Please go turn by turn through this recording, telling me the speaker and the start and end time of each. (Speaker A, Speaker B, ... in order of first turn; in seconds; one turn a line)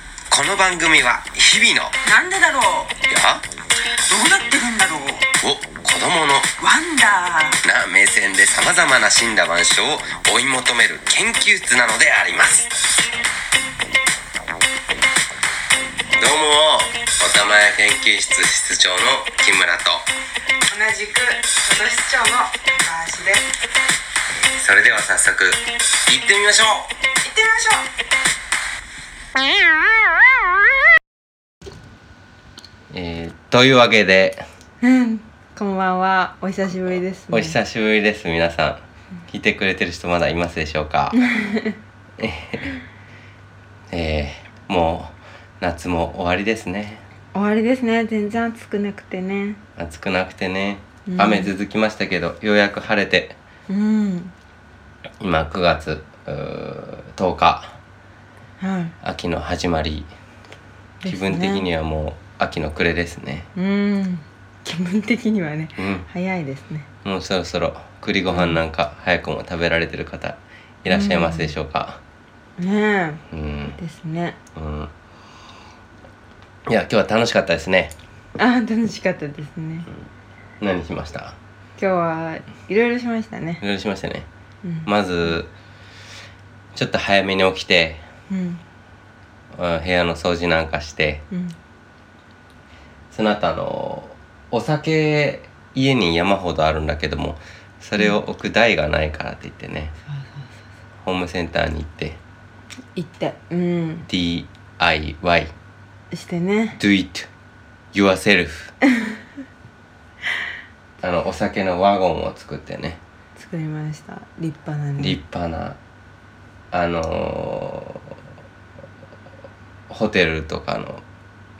Speaker A: 0.3-2.0
Speaker B: 2.0-3.0
Speaker A: 3.0-3.5
Speaker B: 4.1-5.3
Speaker A: 5.2-6.6
Speaker B: 6.6-7.6
Speaker A: 7.6-12.7
Speaker A: 16.2-20.1
Speaker B: 20.7-23.5
Speaker A: 24.4-26.9
Speaker B: 27.2-27.9
Speaker A: 32.9-34.4
Speaker B: 34.8-37.6
Speaker A: 37.3-41.2
Speaker B: 41.1-41.8
Speaker A: 42.2-42.8
Speaker A: 43.9-47.0
Speaker B: 47.3-49.6
Speaker A: 49.8-53.4
Speaker B: 51.1-51.5
Speaker B: 53.7-54.3
Speaker A: 55.2-57.8
Speaker B: 58.6-59.0
Speaker A: 59.0-60.1
Speaker B: 61.0-61.7
Speaker A: 61.1-63.5
Speaker B: 63.6-66.9
Speaker A: 65.8-66.1
Speaker A: 67.0-72.0
Speaker B: 68.3-68.6
Speaker B: 70.9-71.5
Speaker B: 72.6-73.2
Speaker A: 73.3-73.8
Speaker B: 73.8-74.4
Speaker A: 74.6-74.9
Speaker A: 76.7-77.9
Speaker B: 78.4-79.9
Speaker A: 80.6-81.4
Speaker B: 81.8-83.6
Speaker A: 83.6-84.3
Speaker B: 84.6-84.9
Speaker A: 84.9-85.5
Speaker A: 86.7-88.0
Speaker B: 88.3-88.6
Speaker A: 89.5-91.2
Speaker B: 91.3-91.6
Speaker A: 93.1-100.0
Speaker B: 100.1-100.6
Speaker A: 101.0-102.2
Speaker B: 103.0-104.1
Speaker A: 104.1-105.5
Speaker B: 106.1-106.8
Speaker A: 106.8-107.3
Speaker A: 107.9-108.7
Speaker B: 108.9-109.2
Speaker A: 111.0-113.0
Speaker B: 113.4-115.2
Speaker A: 115.0-115.8
Speaker A: 116.7-118.2
Speaker A: 119.9-121.0